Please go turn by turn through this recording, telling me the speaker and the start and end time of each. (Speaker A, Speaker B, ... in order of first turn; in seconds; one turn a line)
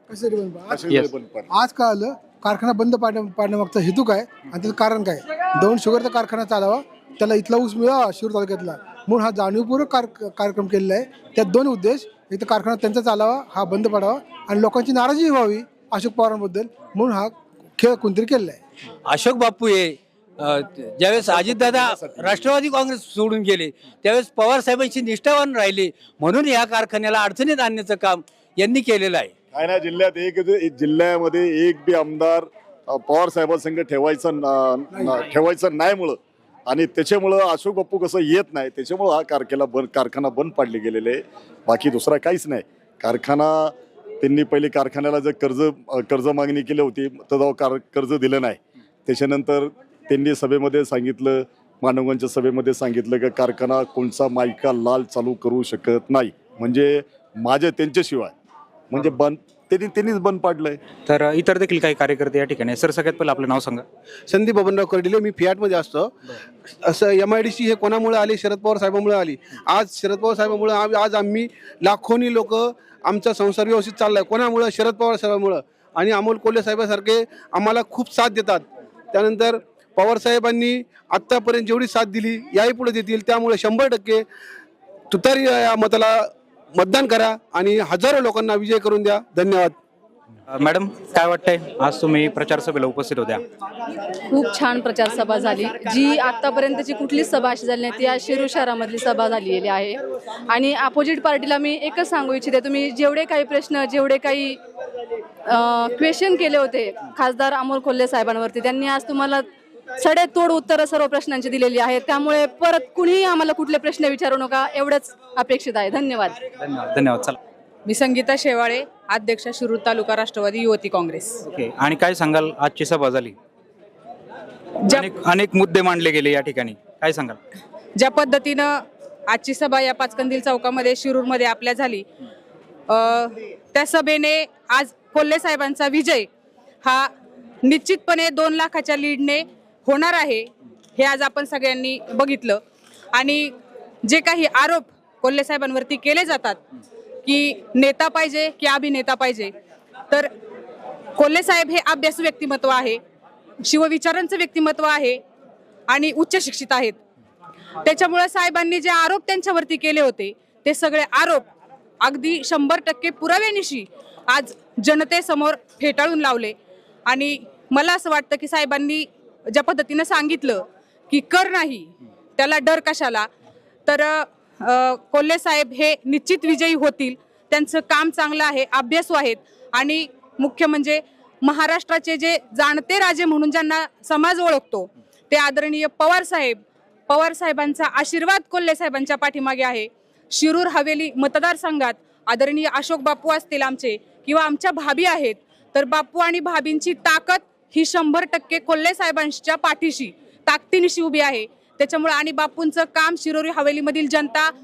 Speaker A: 0.1-0.9
Speaker B: 0.7-1.5
Speaker A: 1.5-18.6
Speaker C: 19.0-29.3
Speaker B: 21.1-22.5
Speaker B: 29.5-58.3
Speaker B: 58.9-60.8
Speaker D: 61.0-63.8
Speaker E: 64.3-66.1
Speaker E: 66.8-84.2
Speaker E: 85.1-89.7
Speaker D: 90.5-93.4
Speaker F: 94.3-104.6
Speaker F: 105.5-109.4
Speaker F: 110.0-116.4
Speaker D: 116.6-117.4
Speaker G: 117.8-121.3
Speaker D: 121.5-123.3
Speaker D: 124.9-127.4
Speaker G: 128.0-128.7
Speaker G: 129.3-132.0
Speaker G: 132.9-136.2
Speaker G: 137.7-142.6
Speaker G: 143.1-143.5
Speaker G: 144.1-146.6
Speaker G: 147.2-149.5
Speaker G: 151.2-153.0
Speaker G: 153.6-155.2
Speaker G: 155.9-157.0
Speaker G: 157.8-161.4
Speaker G: 162.0-166.5
Speaker G: 167.1-173.3
Speaker G: 173.9-186.6
Speaker G: 187.1-204.5